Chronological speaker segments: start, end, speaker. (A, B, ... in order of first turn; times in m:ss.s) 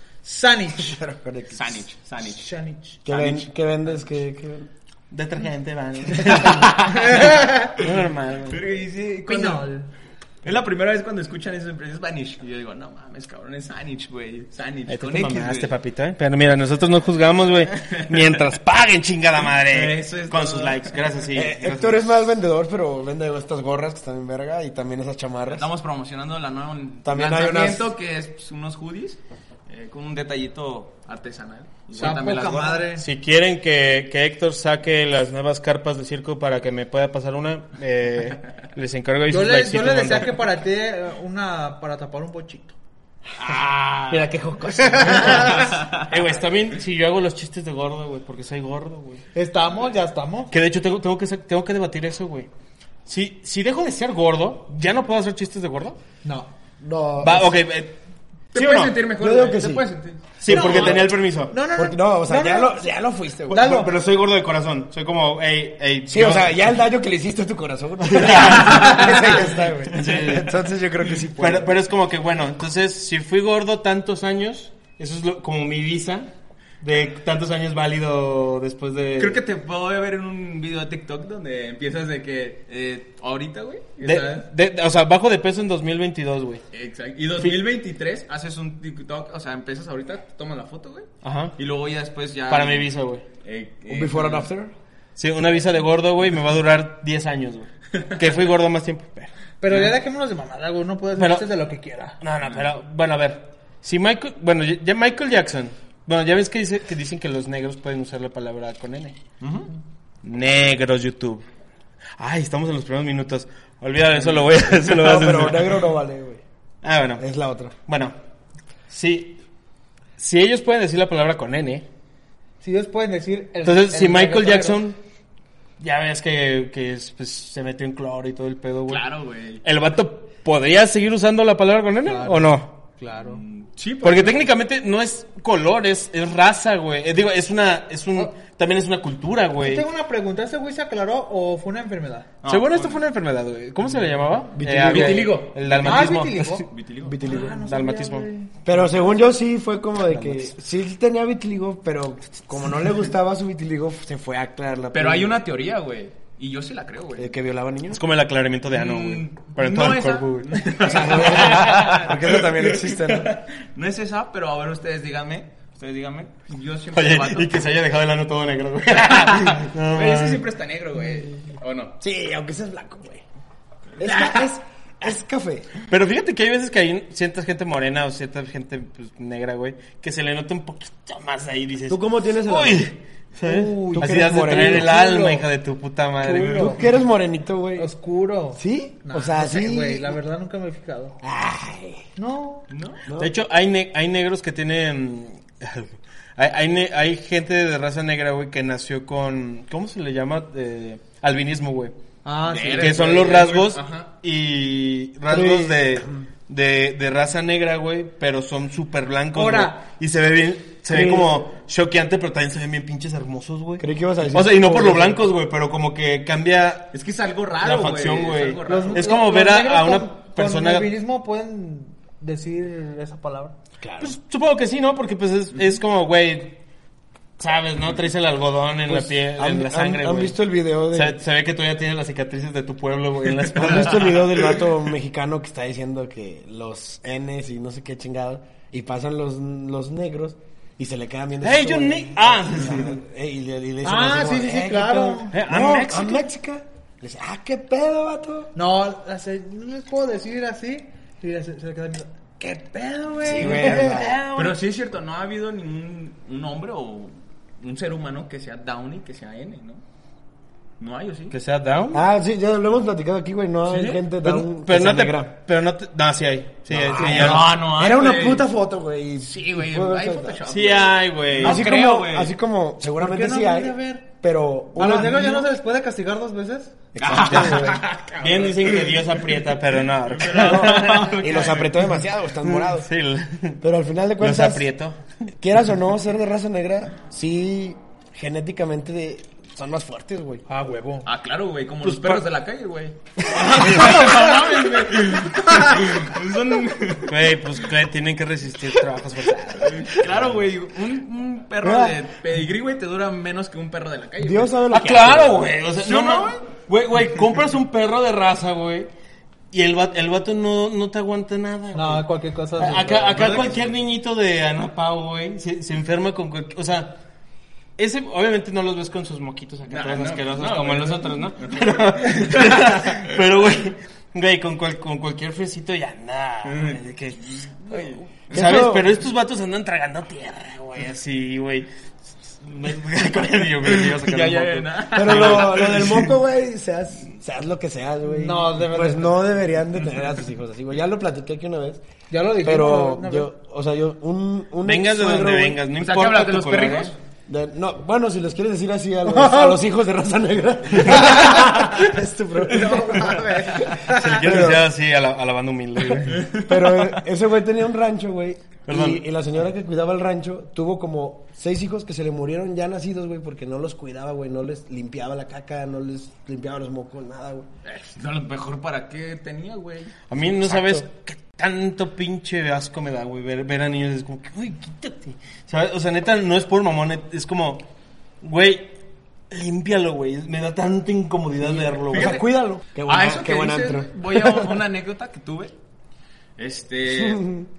0:00.2-0:01.0 A
0:00.7-0:01.8 B
0:01.5-0:02.5 C
0:02.3-0:03.0 A
0:03.0-0:04.7 B
0:03.1-0:04.0 C
0:05.1-0:08.6 D
0:06.6-0:06.9 C
0:07.2-0:07.7 A
0:08.5-0:09.6 C
0:09.2-0:09.9 A
0:10.4-0:15.7 C
0:14.9-0:22.3 D
0:17.7-0:18.4 C
0:19.4-0:21.2 C
0:21.3-0:25.7 B
0:25.5-0:32.8 C
0:27.0-0:27.9 B
0:32.0-0:33.0 A
0:33.0-0:40.5 D
0:39.3-0:42.8 A
0:43.4-0:44.2 C
0:44.1-0:45.8 A
0:44.5-0:49.2 D
0:45.1-0:46.0 C
0:49.3-0:50.5 A
0:50.5-0:52.5 D
0:53.0-0:56.0 D
0:56.2-0:56.5 A
0:56.8-0:57.5 B
0:57.2-0:58.0 D
0:58.5-0:59.0 D
0:58.5-1:01.0 C
0:59.2-0:59.9 B
1:00.4-1:01.5 D
1:00.5-1:02.8 A
1:00.5-1:01.0 B
1:01.7-1:03.8 B
1:03.5-1:03.9 A
1:03.5-1:06.6 D
1:06.0-1:11.7 B
1:08.1-1:09.3 D
1:09.9-1:10.6 D
1:11.4-1:19.4 D
1:19.2-1:24.5 C
1:24.0-1:26.6 D
1:26.7-1:34.5 C
1:31.2-1:31.5 D
1:32.5-1:33.2 D
1:33.9-1:34.7 B
1:35.2-1:39.9 D
1:39.6-1:42.2 A
1:41.2-1:41.5 D
1:42.2-1:49.2 D
1:49.4-1:49.7 C
1:50.2-1:51.4 D
1:52.2-1:55.8 D
1:54.7-1:56.4 B
1:56.8-1:57.2 D
1:57.2-1:57.7 B
1:57.8-1:58.2 D
1:58.9-1:59.4 D
2:00.2-2:01.8 D
2:02.6-2:04.8 A
2:03.6-2:05.0 D
2:05.8-2:09.0 D
2:08.9-2:09.6 C
2:09.6-2:12.7 D
2:12.0-2:13.4 A
2:13.2-2:14.4 C
2:14.0-2:19.8 D
2:19.6-2:22.3 A
2:22.4-2:23.0 C
2:22.4-2:26.7 D
2:24.5-2:25.4 B
2:24.8-2:27.2 C
2:25.8-2:26.7 A
2:27.0-2:27.6 B
2:27.2-2:28.5 A
2:27.4-2:28.2 D
2:28.6-2:35.4 B
2:30.1-2:30.5 D
2:34.9-2:37.3 C
2:37.2-2:38.0 B
2:37.9-2:42.0 D
2:38.7-2:47.5 C
2:40.8-2:43.3 B
2:46.9-2:50.4 D
2:48.9-2:51.9 C
2:52.0-2:53.2 B
2:54.0-2:54.5 C
2:54.0-2:55.7 B
2:55.9-3:06.8 D
3:01.9-3:02.9 B
3:03.4-3:04.9 A
3:03.8-3:05.4 B
3:06.2-3:06.8 A
3:06.3-3:07.9 B
3:07.8-3:11.2 A
3:08.5-3:10.2 B
3:11.2-3:12.0 B
3:12.2-3:12.7 A
3:12.7-3:13.0 C
3:13.0-3:13.4 B
3:13.2-3:21.9 D
3:22.2-3:23.2 A
3:22.4-3:24.1 C
3:22.8-3:36.9 D
3:25.3-3:26.2 B
3:29.3-3:29.8 A
3:30.9-3:31.4 B
3:33.8-3:35.2 B
3:36.9-3:39.1 C
3:37.6-3:40.9 D
3:38.7-3:43.5 A
3:43.8-3:44.2 B
3:44.0-3:46.6 D
3:47.4-3:50.3 D
3:48.9-3:51.2 B
3:50.9-3:54.6 D
3:53.5-4:08.5 B
4:01.4-4:03.0 D
4:03.8-4:05.3 A
4:05.3-4:06.2 D
4:08.5-4:14.1 A
4:13.2-4:14.2 B
4:13.5-4:14.6 D
4:14.3-4:19.8 C
4:20.8-4:21.4 C
4:21.3-4:22.0 D
4:21.9-4:25.3 B
4:23.7-4:24.0 C
4:24.2-4:27.5 D
4:26.7-4:30.4 B
4:27.0-4:28.4 C
4:29.2-4:32.3 C
4:30.5-4:31.7 D
4:31.4-4:35.3 B
4:33.0-4:34.1 A
4:34.7-4:36.7 A
4:36.9-4:37.8 B
4:37.0-4:39.4 C
4:37.3-4:41.5 D
4:40.1-4:41.9 C
4:40.3-4:42.9 B
4:42.4-4:43.6 D
4:43.6-4:44.6 B
4:44.2-4:45.0 D
4:45.4-4:50.4 B
4:50.5-4:51.1 A
4:51.0-4:57.1 C
4:51.8-4:52.2 D
4:53.4-4:55.8 A
4:53.4-4:54.2 D
4:57.1-5:00.2 D
4:59.6-5:04.5 C
5:01.6-5:02.0 B
5:04.2-5:05.5 B
5:04.7-5:08.9 D
5:05.8-5:06.4 C
5:09.5-5:17.0 D
5:11.7-5:13.4 A
5:13.0-5:13.7 C
5:17.8-5:36.1 D
5:19.7-5:23.2 C
5:26.4-5:28.1 C
5:28.3-5:28.9 B
5:33.6-5:36.1 C
5:34.9-5:41.8 B
5:38.0-5:39.3 A
5:42.1-5:43.3 A
5:42.4-5:45.6 B
5:44.6-5:46.9 D
5:45.8-5:47.0 C
5:47.3-5:54.7 B
5:49.1-5:49.6 A
5:50.9-5:51.3 A
5:52.6-5:54.2 A
5:52.7-5:53.7 C
5:53.9-5:56.3 D
5:56.1-5:56.9 C
5:56.4-6:07.5 B
5:58.7-5:59.0 D
6:07.6-6:09.9 C
6:10.1-6:17.6 D
6:10.2-6:10.8 B
6:18.2-6:18.8 D
6:19.3-6:22.2 D
6:21.5-6:24.6 B
6:21.5-6:22.2 C
6:22.8-6:25.5 C
6:26.4-6:27.3 C
6:26.8-6:27.5 B